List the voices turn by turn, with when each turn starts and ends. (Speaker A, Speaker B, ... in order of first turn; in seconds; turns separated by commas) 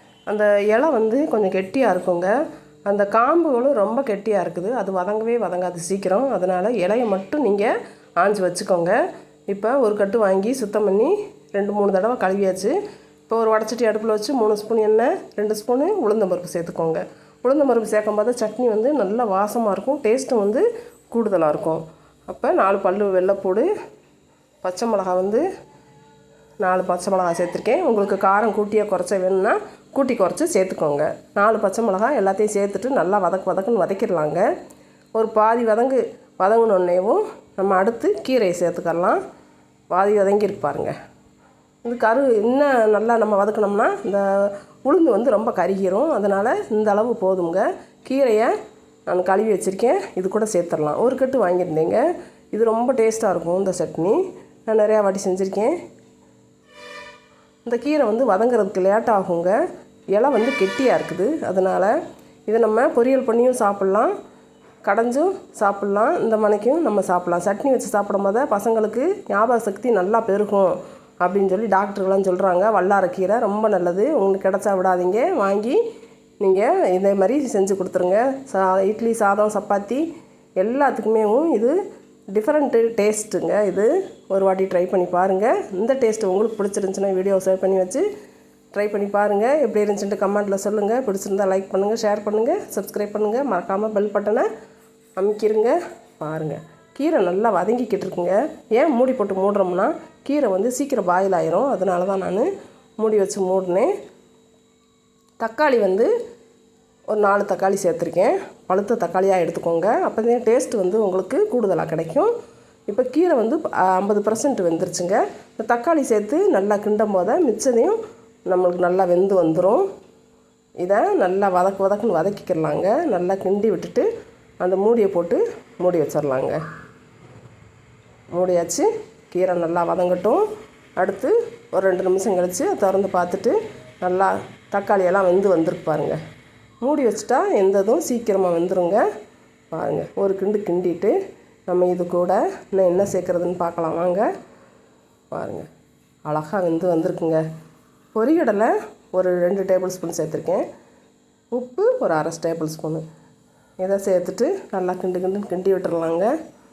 Speaker A: 0.3-2.3, Speaker A: 2.9-12.8, Speaker A: 13.3-23.7, Speaker A: 24.6-25.4, Speaker A: 26.6-34.5, Speaker A: 35.1-39.2, Speaker A: 39.9-40.9, Speaker A: 41.8-48.5, Speaker A: 49.1-55.8, Speaker A: 57.6-59.6, Speaker A: 60.1-62.0, Speaker A: 62.5-64.1, Speaker A: 64.8-75.8, Speaker A: 76.4-80.0, Speaker A: 80.6-81.8, Speaker A: 82.3-88.0, Speaker A: 88.7-94.5, Speaker A: 95.2-102.5, Speaker A: 103.0-103.9, Speaker A: 105.4-106.1, Speaker A: 107.1-112.3, Speaker A: 112.9-119.8, Speaker A: 120.8-124.1, Speaker A: 124.6-126.6, Speaker A: 128.3-130.4, Speaker A: 131.0-136.2, Speaker A: 136.8-139.0, Speaker A: 139.7-141.2, Speaker A: 141.7-144.3, Speaker A: 145.3-145.7, Speaker A: 146.2-147.4, Speaker A: 148.1-150.7, Speaker A: 151.5-153.0, Speaker A: 153.8-156.3